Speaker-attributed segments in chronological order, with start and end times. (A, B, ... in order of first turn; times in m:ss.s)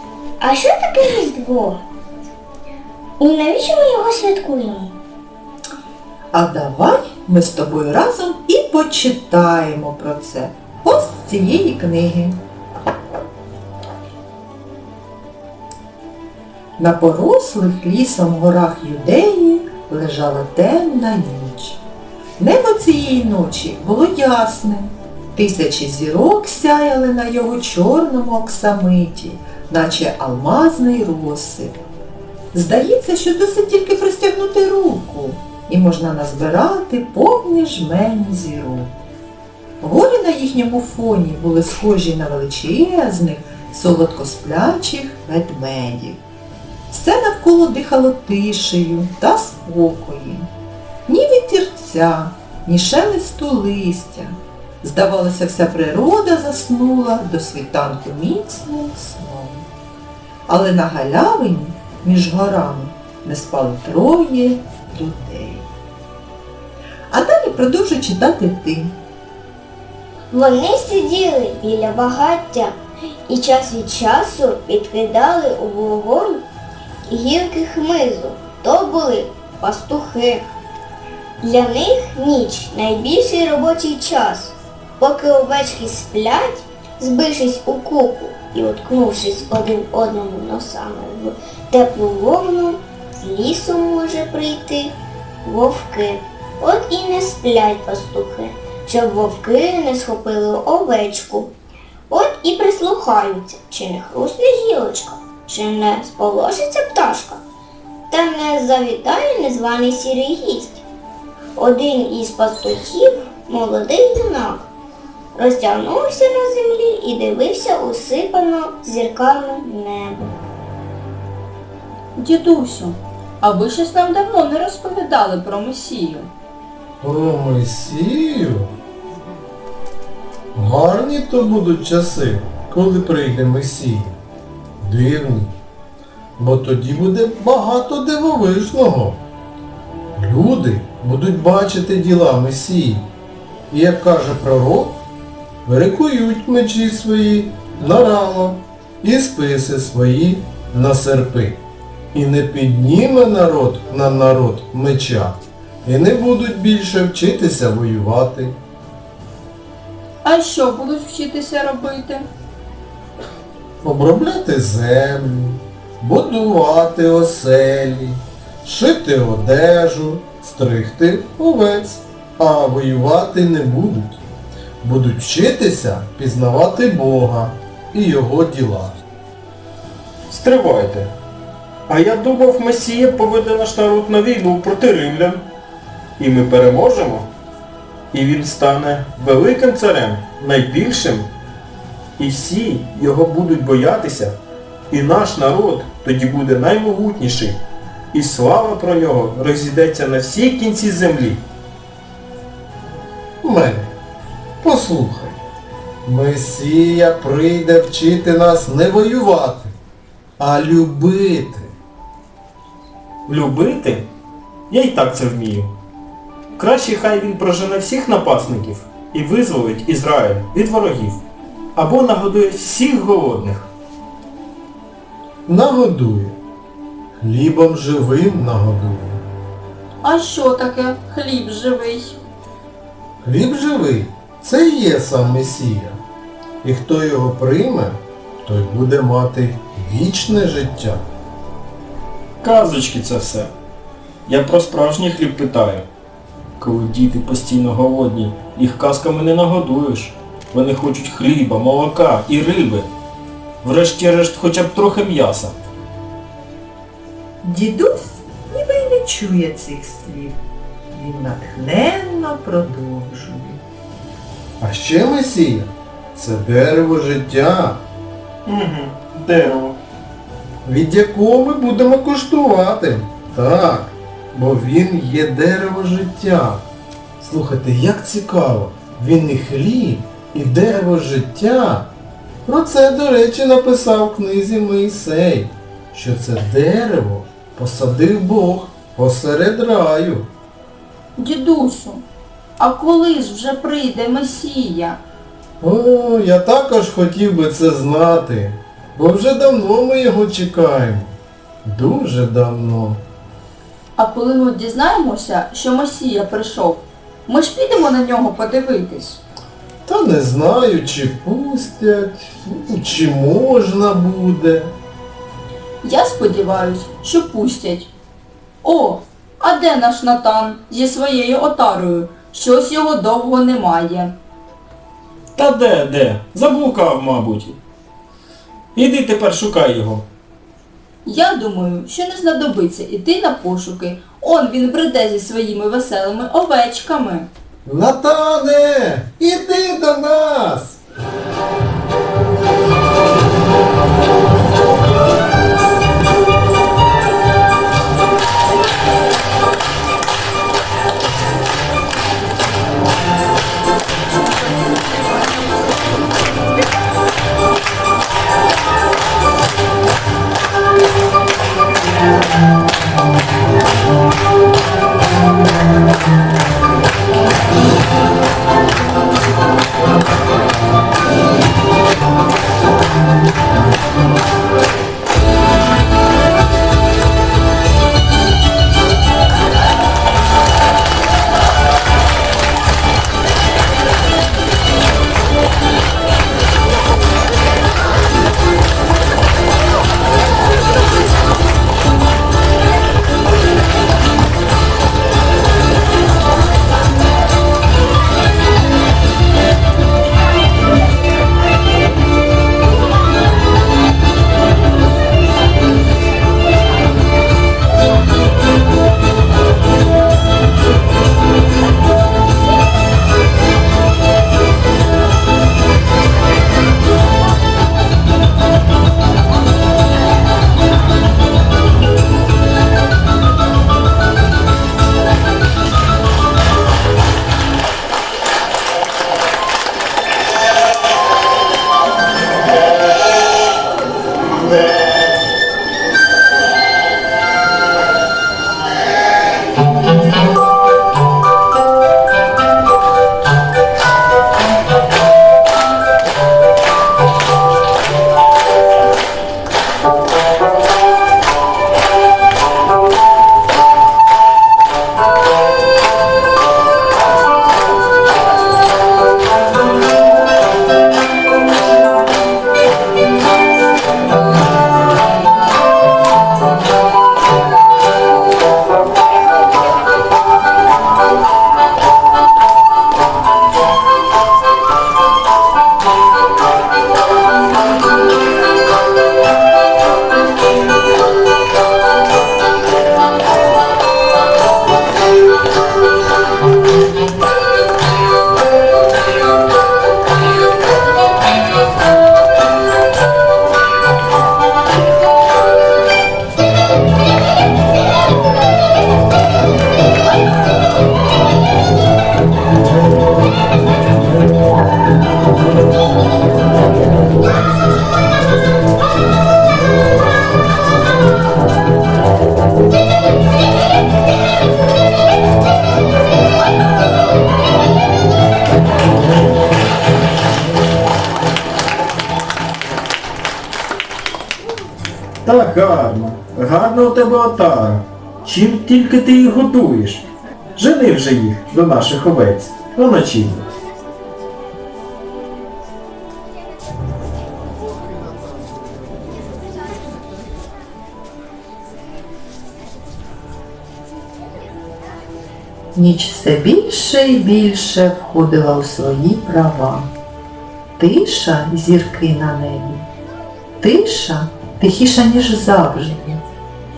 0:00.4-0:01.8 A
0:03.2-0:04.9 A
0:06.3-0:12.4 B
0:16.8-0:21.8 B
0:22.4-0:31.8 B
0:32.5-0:38.9 B
0:39.8-0:46.2 B
0:46.9-0:50.5 B
0:51.1-0:59.7 B
1:00.5-1:05.7 B
1:07.1-1:08.9 B
1:10.3-1:12.8 A
1:13.3-1:16.4 A
1:17.1-1:20.4 A
1:21.4-1:34.9 A
1:35.4-1:41.5 A
1:42.1-1:47.4 A
1:48.1-1:50.8 A
1:51.6-1:54.7 A
1:55.4-2:00.4 A
2:02.2-2:06.3 C
2:07.0-2:08.7 D
2:10.5-2:14.2 D
2:14.8-2:15.5 D
2:16.4-2:19.2 D
2:20.2-2:23.1 D
2:23.7-2:25.0 D
2:25.6-2:31.6 D
2:32.1-2:38.6 D
2:40.2-2:42.2 C
2:43.8-2:54.2 D
2:54.8-2:59.0 D
3:00.3-3:01.1 E
3:01.9-3:05.4 E
3:06.2-3:07.3 E
3:08.1-3:11.3 E
3:12.2-3:14.4 E
3:14.9-3:17.6 E
3:18.1-3:21.4 E
3:23.4-3:23.9 D
3:24.6-3:25.4 D
3:26.0-3:29.7 D
3:30.4-3:31.7 D
3:33.3-3:34.0 E
3:34.7-3:35.7 E
3:36.6-3:41.2 E
3:41.8-3:43.7 E
3:45.5-3:46.4 D
3:47.2-3:49.2 D
3:50.0-3:52.2 C
3:53.2-3:56.0 D
3:56.6-4:01.1 D
4:02.4-4:03.5 E
4:04.3-4:05.8 E
4:06.6-4:12.9 E
4:13.6-4:15.6 E
4:17.4-4:20.4 B
4:20.9-4:23.6 B
4:24.6-4:27.8 D
4:28.5-4:29.8 E
4:30.6-4:36.7 D
4:37.2-4:41.9 D
4:42.5-4:50.3 D
4:51.2-4:52.0 C
4:52.6-4:55.0 C
4:55.6-5:03.0 D
5:04.0-5:09.2 C
5:09.8-5:14.7 D
5:15.8-5:17.9 C
5:18.6-5:24.1 C
5:25.4-5:27.6 E
5:28.8-5:30.0 E
5:31.0-5:37.3 C
5:37.6-5:40.8 D
8:45.2-8:50.0 E
8:50.6-8:53.5 E
9:05.8-9:09.9 B
9:10.8-9:12.9 B
9:13.6-9:16.2 B